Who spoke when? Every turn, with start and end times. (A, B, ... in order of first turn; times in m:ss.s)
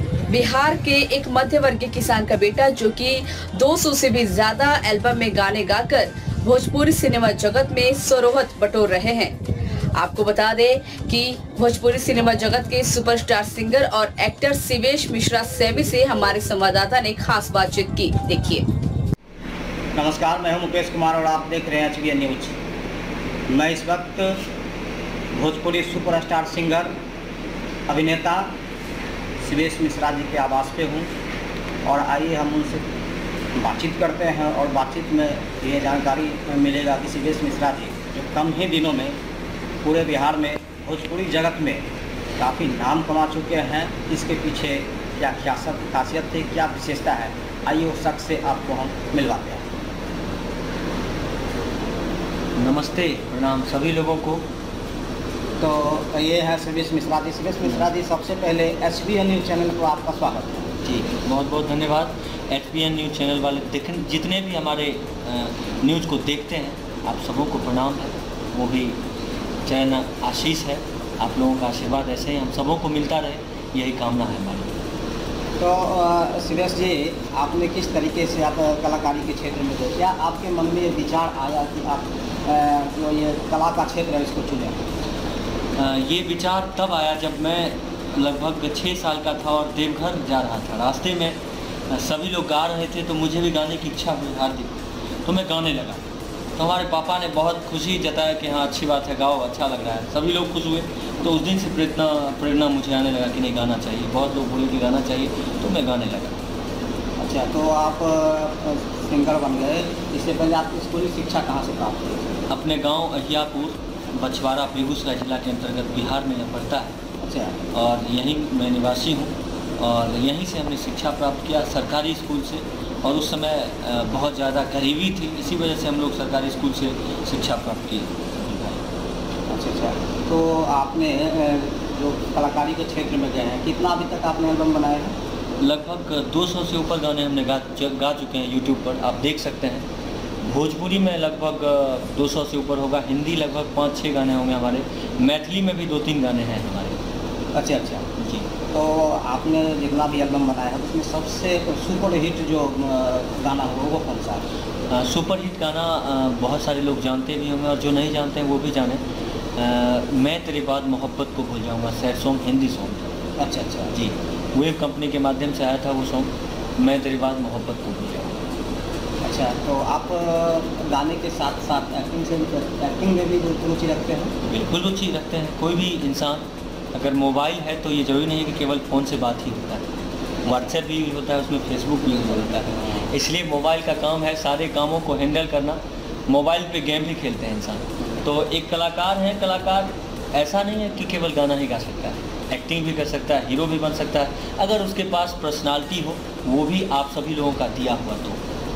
0:00.3-0:09.4 A
0:10.0-0:18.6 A
0:19.9-0:22.6 B
0:23.5-0:24.4 B
0:25.4-0:26.9 B
0:27.9-0:28.5 B
0:29.4-0:31.1 B
0:31.8-0:32.9 B
0:33.6-0:39.2 B
0:39.8-0:41.8 B
0:42.4-0:49.6 B
0:52.6-0:54.5 C
0:55.6-1:00.7 B
1:00.8-1:09.0 C
1:09.6-1:14.8 C
1:15.6-1:24.9 B
1:25.8-1:31.4 C
1:31.9-1:36.0 C
1:36.6-1:46.4 C
1:47.2-1:52.4 B
1:52.5-1:56.9 C
1:57.2-1:57.6 B
1:57.7-2:08.8 C
2:09.5-2:15.1 B
2:15.6-2:19.9 C
2:20.4-2:27.0 C
2:27.5-2:28.1 B
2:28.2-2:28.5 C
2:28.7-2:34.5 B
2:34.9-2:39.0 C
2:39.6-2:43.2 C
2:43.4-2:43.9 B
2:43.9-2:48.5 C
2:49.2-2:54.3 B
2:54.4-2:59.9 C
3:00.4-3:00.7 B
3:00.4-3:18.4 C
3:02.1-3:03.1 B